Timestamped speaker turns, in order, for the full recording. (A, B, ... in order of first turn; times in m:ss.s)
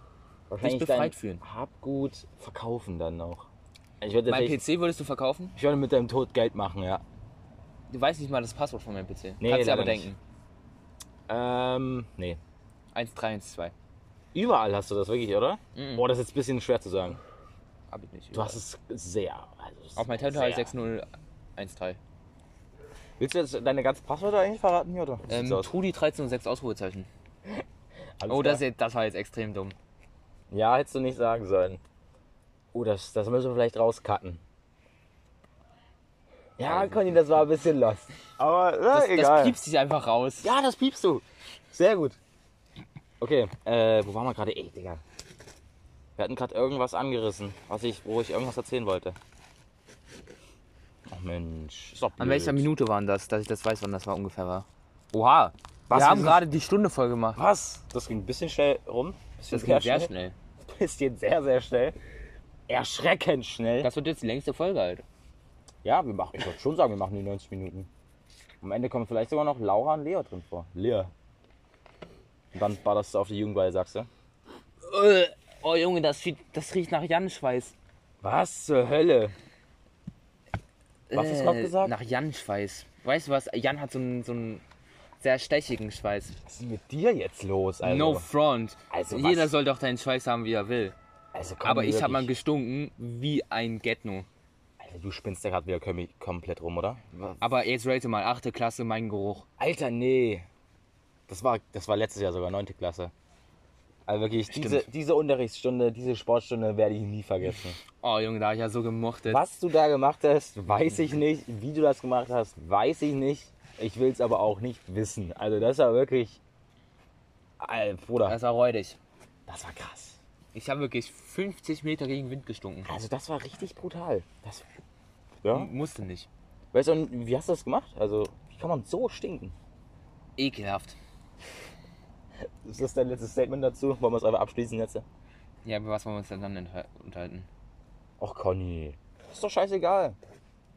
0:00.5-0:03.5 A
0:00.6-0:01.4 B
0:04.0-0:04.6 A
0:04.3-0:05.6 B
0:05.6-0:07.0 A
0:07.9-0:10.2 B
0:09.4-0:10.1 A
0:11.3-0:12.4 A
0:12.9-0:13.7 B
0:14.3-0:17.2 A
0:15.7-0:16.1 B
0:17.9-0:18.6 B
0:18.3-0:20.7 A
0:20.0-0:22.0 B
0:23.2-0:25.7 A
0:25.3-0:27.1 B
0:28.2-0:28.6 A
0:28.3-0:29.8 B
0:30.5-0:31.8 A
0:32.7-0:34.4 A
0:36.6-0:39.6 A
0:36.6-0:37.3 B
0:38.9-0:40.5 B
0:40.4-0:42.2 A
0:43.2-0:45.0 A
0:46.2-0:49.2 A
0:51.1-0:52.7 A
0:52.2-0:57.4 B
0:55.9-0:56.4 A
0:57.4-1:00.1 A
0:59.5-1:00.3 B
1:00.6-1:02.0 A
1:02.7-1:03.9 A
1:03.8-1:05.0 B
1:05.8-1:07.9 A
1:08.6-1:11.1 A
1:12.5-1:14.1 A
1:14.8-1:17.7 B
1:18.2-1:19.3 A
1:21.1-1:24.6 B
1:21.1-1:21.9 A
1:25.2-1:26.4 B
1:26.4-1:28.3 A
1:27.8-1:31.0 B
1:28.9-1:29.5 A
1:31.3-1:32.3 A
1:31.6-1:34.3 B
1:34.8-1:37.4 A
1:37.4-1:39.5 B
1:39.6-1:40.4 A
1:41.3-1:43.1 A
1:44.1-1:47.8 A
1:44.5-1:44.9 B
1:48.0-1:49.4 B
1:49.2-1:56.4 A
1:57.6-1:58.4 A
1:58.2-1:59.0 B
1:59.5-2:00.2 A
2:00.6-2:02.9 B
2:02.9-2:04.6 A
2:05.4-2:05.7 A
2:05.5-2:06.3 B
2:06.7-2:09.6 A
2:10.4-2:11.0 B
2:12.6-2:15.0 A
2:15.6-2:17.5 B
2:18.2-2:20.2 A